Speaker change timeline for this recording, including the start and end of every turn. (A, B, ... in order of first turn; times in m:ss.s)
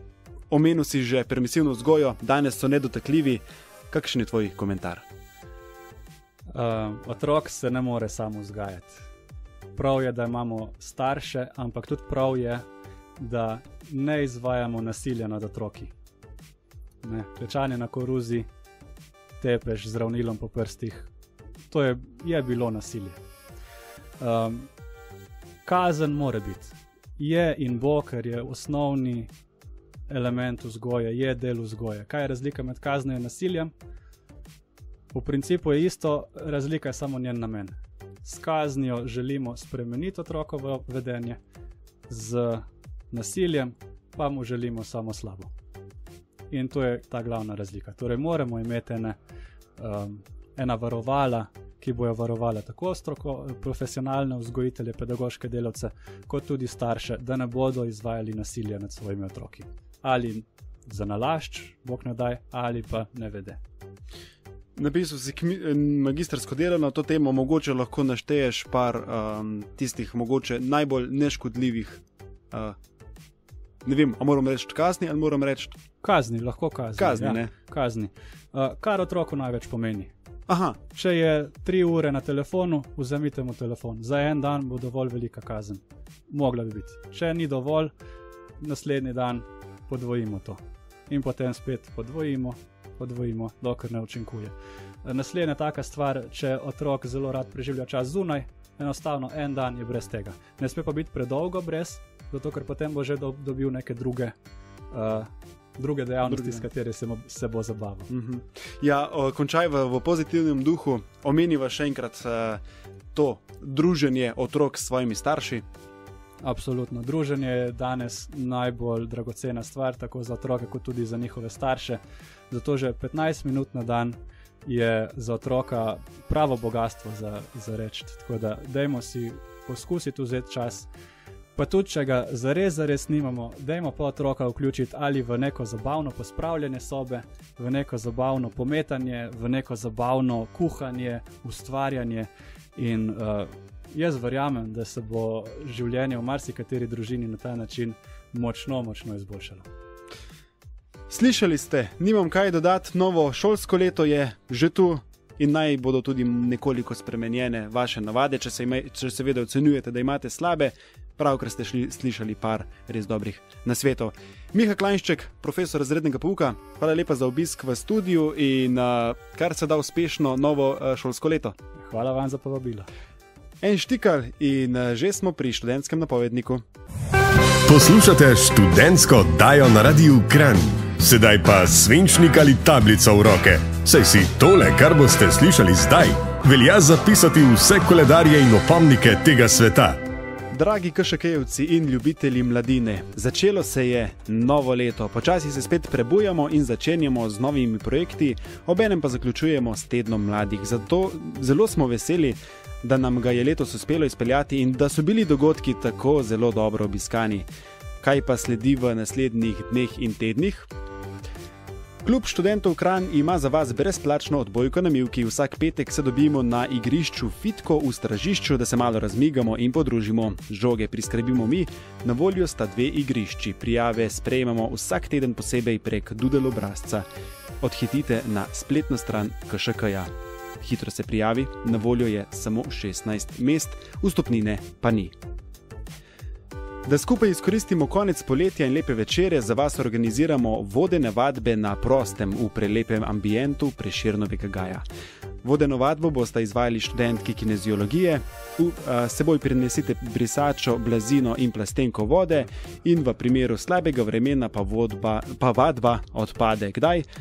0:00.5-0:05.0 A
0:06.5-0:09.0 B
0:09.7-0:12.6 B
0:13.2-0:15.9 B
0:17.0-0:18.5 B
0:19.4-0:21.1 B
0:21.7-0:23.2 B
0:24.2-0:24.7 B
0:25.6-0:29.3 B
0:30.1-0:33.7 B
0:35.1-0:41.4 B
0:42.1-0:45.5 B
0:46.5-0:49.2 B
0:49.8-1:03.6 B
1:04.8-1:12.8 A
1:13.8-1:15.8 A
1:16.0-1:20.1 B
1:17.0-1:17.5 A
1:20.5-1:20.8 A
1:20.9-1:27.9 B
1:28.6-1:44.3 B
1:44.9-1:48.1 B
1:46.3-1:46.6 A
1:48.1-1:52.6 A
1:53.1-1:55.6 A
1:56.4-2:10.9 B
2:11.6-2:29.6 B
2:31.1-2:51.5 A
2:51.8-2:52.9 B
2:53.6-2:56.6 A
2:57.6-3:10.0 C
3:10.5-3:27.5 A
3:28.0-3:30.7 A
3:32.0-3:47.0 A
3:47.6-3:55.2 A
3:56.8-4:04.8 A
4:05.4-4:17.0 A